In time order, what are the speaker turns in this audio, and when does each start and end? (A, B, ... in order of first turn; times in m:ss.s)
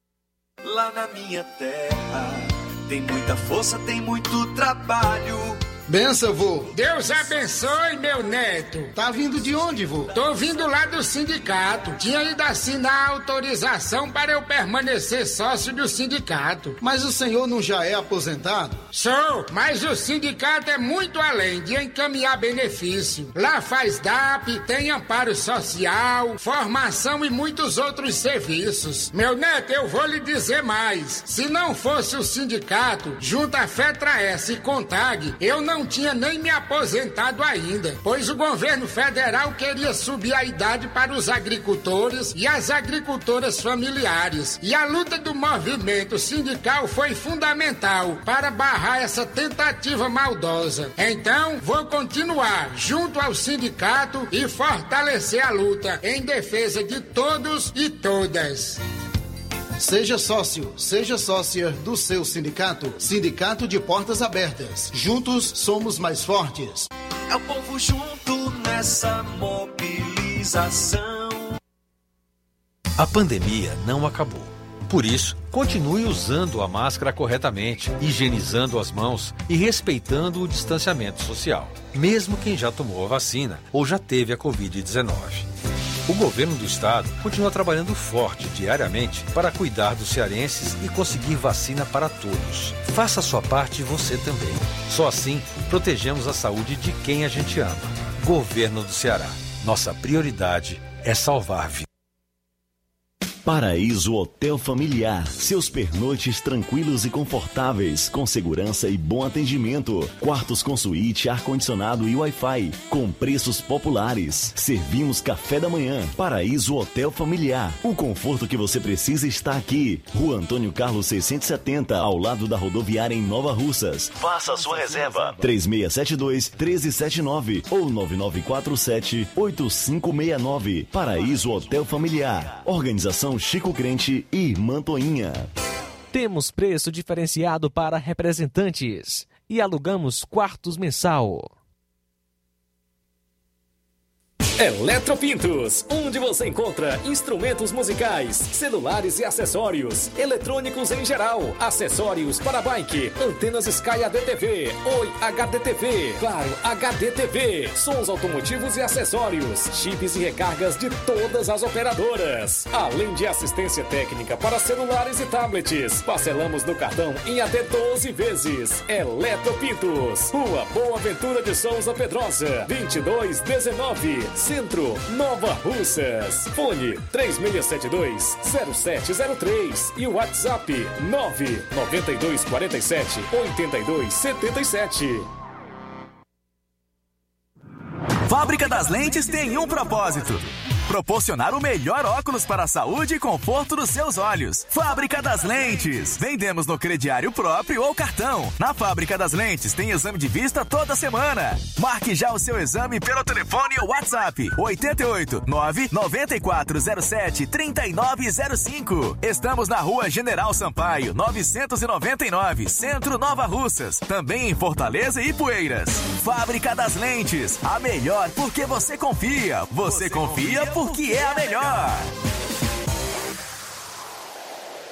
0:00.6-0:05.6 A
0:05.9-0:06.7 B
0:06.7-0:08.9 C
0:08.9-0:10.1 B
0:10.1-0:16.8 C
0:16.8-0:18.9 B
0:18.9-0:58.8 C
0:59.8-1:06.9 B
1:07.3-1:11.6 A
1:13.0-1:25.5 D
1:26.1-1:41.8 D
1:43.4-2:15.5 E
2:16.1-2:21.5 F
2:24.6-3:05.3 G
3:08.3-3:42.1 H